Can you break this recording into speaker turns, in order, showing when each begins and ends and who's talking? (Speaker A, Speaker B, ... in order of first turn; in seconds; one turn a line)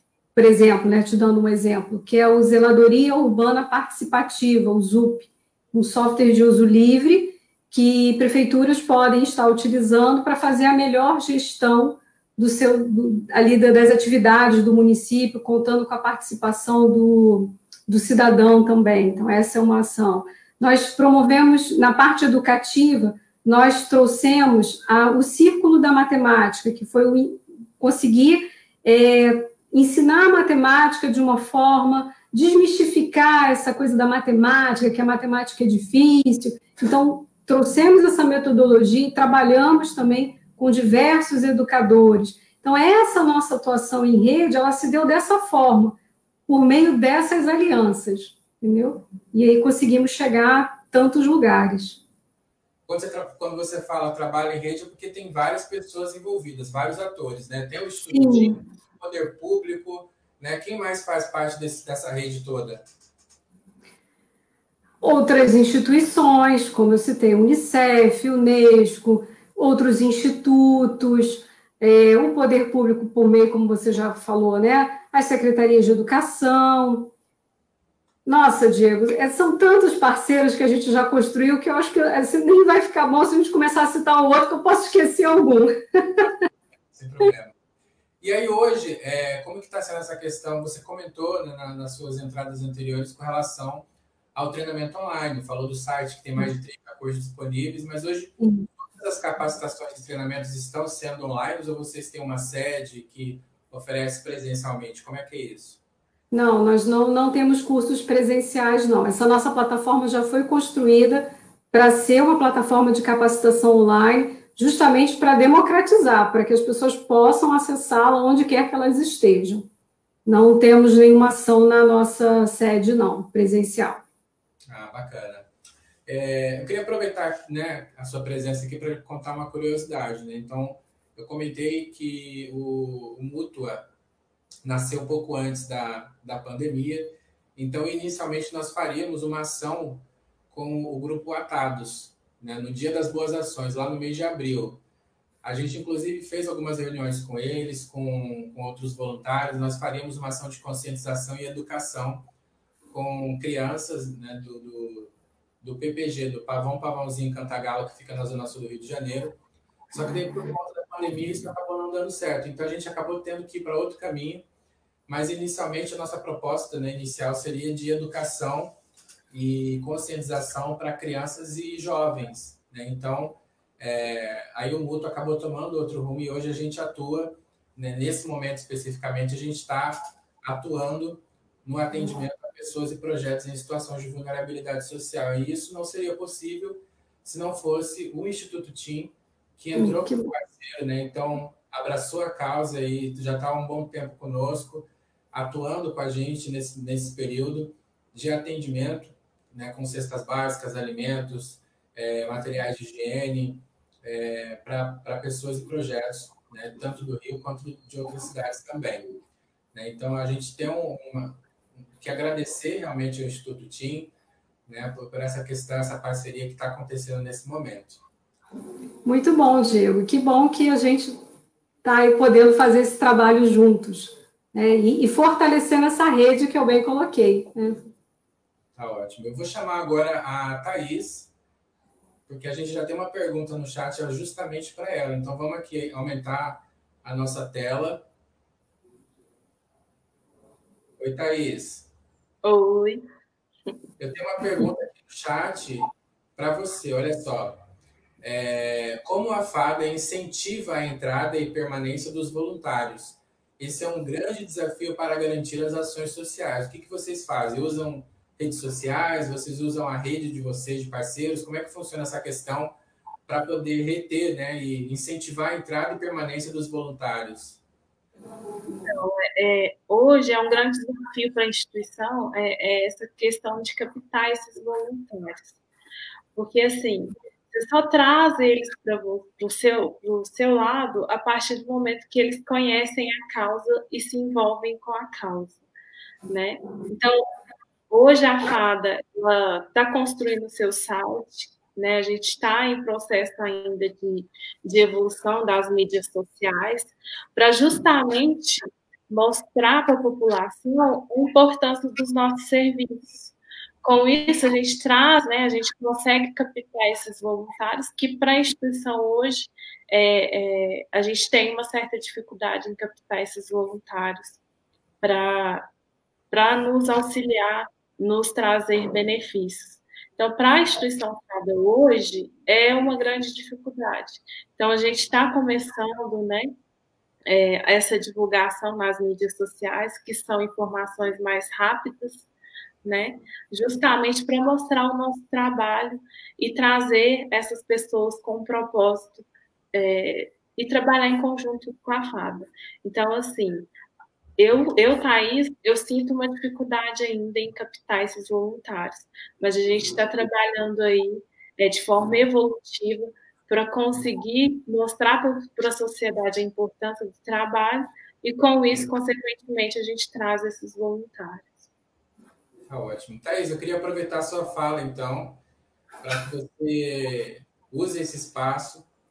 Speaker A: 0.3-52.0
Speaker B: 52.9-62.8
Speaker A: 58.1-58.6
Speaker A: 65.0-77.1
Speaker A: 78.2-86.3
Speaker B: 86.9-87.5
Speaker B: 88.2-105.8
Speaker A: 98.4-98.7
Speaker A: 106.3-119.7
Speaker A: 120.2-124.0
Speaker B: 124.7-125.5
Speaker B: 126.0-133.8
Speaker B: 134.6-144.8
Speaker B: 145.4-152.2
Speaker B: 152.9-159.4
Speaker B: 159.9-164.4
Speaker B: 165.1-168.8
Speaker B: 169.3-209.1
Speaker A: 181.9-182.2
Speaker A: 189.8-190.3
Speaker B: 209.7-211.4
Speaker B: 212.0-214.1
Speaker B: 214.7-218.0
Speaker A: 219.0-221.2
Speaker A: 221.8-227.9
Speaker B: 228.7-231.3
Speaker B: 232.3-238.1
Speaker B: 241.0-241.9
Speaker C: 242.4-243.0
Speaker B: 244.0-247.6
Speaker B: 248.2-262.7
Speaker B: 263.3-267.6
Speaker C: 268.7-275.6
Speaker C: 276.3-285.6
Speaker C: 286.3-287.2
Speaker C: 287.9-314.4
Speaker C: 315.0-315.7
Speaker C: 316.3-326.5
Speaker C: 327.3-332.3
Speaker C: 332.8-343.7
Speaker C: 344.4-361.7
Speaker B: 362.7-365.4
Speaker B: 366.0-368.9